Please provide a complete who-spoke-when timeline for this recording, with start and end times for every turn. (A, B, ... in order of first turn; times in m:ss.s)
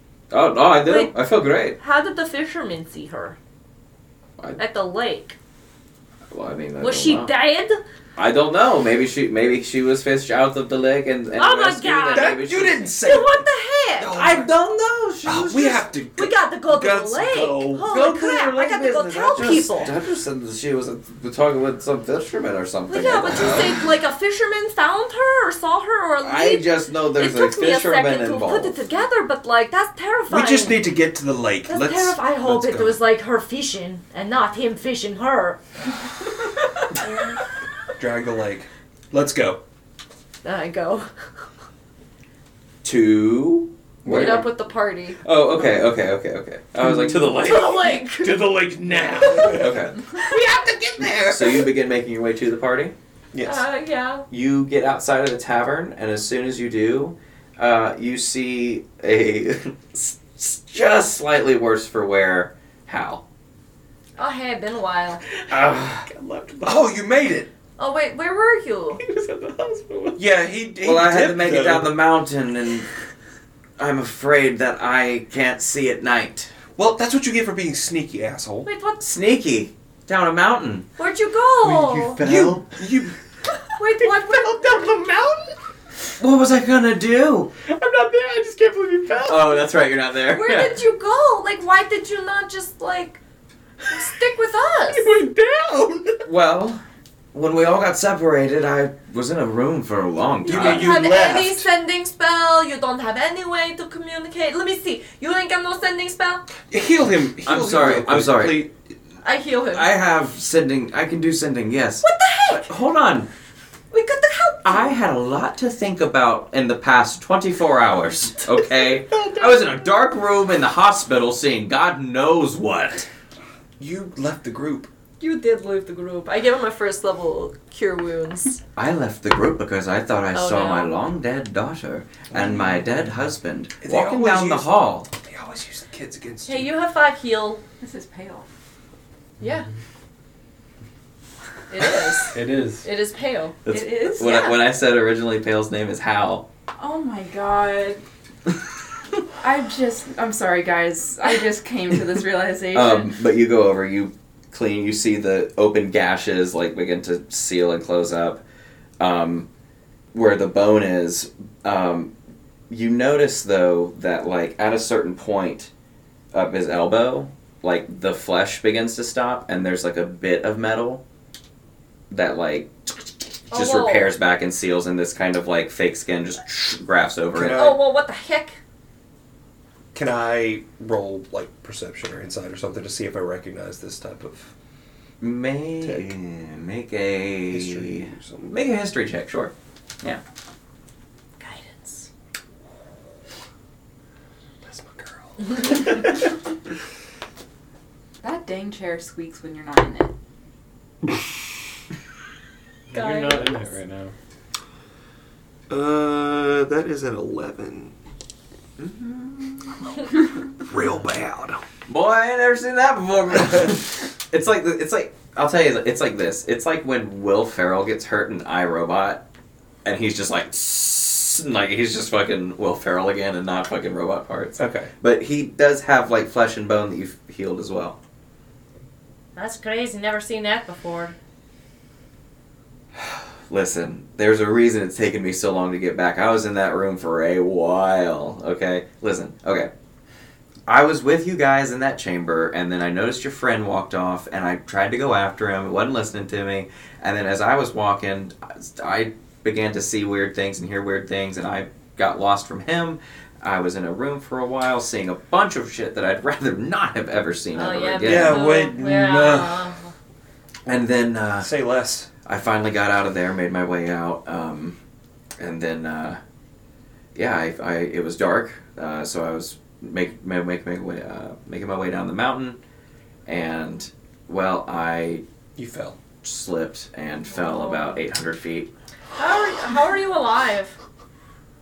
0:00.3-0:01.8 A
0:00.8-0:01.2 B
0:01.8-0:03.4 B
0:04.6-0:05.4 B
0:06.3-0:07.3 A
0:06.8-0:07.8 B
0:08.2-0:13.0 A
0:11.3-0:12.4 B
0:12.1-0:13.4 C
0:13.0-0:14.1 B
0:14.0-0:14.5 C
0:14.1-0:15.9 A
0:15.2-0:18.0 C
0:16.2-0:19.9 B
0:17.8-0:23.8 A
0:22.9-0:30.9 B
0:26.2-0:28.8 A
0:30.3-0:33.0 C
0:31.7-0:35.6 B
0:37.0-0:37.4 B
0:38.0-0:39.6 C
0:40.4-0:41.1 B
0:42.8-0:44.5 A
0:44.0-0:44.5 C
0:44.1-0:45.2 B
0:45.2-0:48.0 A
0:47.4-0:48.4 B
0:48.2-0:49.5 D
0:48.9-0:49.9 C
0:49.4-0:50.1 A
0:50.3-0:51.5 D
0:51.0-0:51.6 C
0:51.2-0:53.0 A
0:53.3-0:53.6 C
0:53.4-0:54.3 B
0:54.3-1:03.2 A
1:04.2-1:05.2 B
1:05.5-1:07.0 D
1:05.5-1:06.0 C
1:06.6-1:07.5 C
1:07.8-1:09.0 B
1:09.0-1:10.3 D
1:10.2-1:12.0 C
1:10.8-1:12.9 A
1:13.8-1:16.5 A
1:16.8-1:18.7 C
1:18.6-1:19.0 B
1:19.0-1:20.9 A
1:21.0-1:22.2 B
1:21.7-1:23.1 C
1:22.1-1:22.7 A
1:23.8-1:24.8 B
1:24.0-1:25.6 D
1:26.2-1:27.5 A
1:27.7-1:29.7 D
1:29.2-1:30.8 A
1:30.3-1:33.2 B
1:33.9-1:35.1 B
1:34.9-1:36.2 D
1:36.2-1:36.8 A
1:37.3-1:41.0 A
1:40.4-1:41.7 C
1:40.5-1:46.4 B
1:46.7-1:48.7 C
1:47.4-1:48.7 A
1:49.2-1:49.9 B
1:49.7-1:53.3 A
1:52.0-1:52.7 B
1:53.9-1:55.0 B
1:54.6-2:03.1 A
2:03.8-2:04.9 C
2:05.2-2:08.6 B
2:08.8-2:15.1 A
2:10.3-2:11.0 B
2:12.3-2:12.8 C
2:13.8-2:16.7 C
2:16.5-2:17.6 B
2:17.8-2:18.5 E
2:19.4-2:19.7 B
2:21.7-2:23.7 B
2:22.3-2:22.8 D
2:23.7-2:24.4 E
2:23.7-2:26.5 A
2:24.2-2:24.5 B
2:26.8-2:28.0 E
2:29.4-2:33.1 E
2:32.7-2:38.4 A
2:39.0-2:39.5 A
2:40.1-2:42.1 A
2:42.7-2:45.7 A
2:46.3-2:51.0 A
2:52.1-2:57.7 A
2:53.5-2:54.2 B
2:57.3-2:57.8 C
2:57.5-2:58.6 B
2:59.9-3:04.5 C
3:05.2-3:10.2 A
3:05.8-3:06.1 C
3:07.5-3:08.6 C
3:11.4-3:12.1 B
3:14.6-3:16.1 C
3:18.2-3:20.1 E
3:22.9-3:24.1 D
3:22.9-3:23.8 B
3:25.7-3:28.0 C
3:28.8-3:29.7 A
3:30.6-3:31.6 C
3:31.9-3:39.3 A
3:39.8-3:48.0 A
3:44.6-3:44.9 C
3:49.4-3:51.2 B
3:53.5-3:59.7 A
4:00.7-4:18.5 A
4:17.6-4:19.9 B
4:18.0-4:19.7 C
4:20.7-4:21.6 A
4:21.4-4:22.1 C
4:22.2-4:24.8 A
4:25.4-4:26.2 A
4:27.2-4:32.6 A
4:33.3-4:35.2 A
4:35.6-4:36.0 C
4:36.2-4:38.7 A
4:37.3-4:38.0 B
4:39.2-4:40.8 B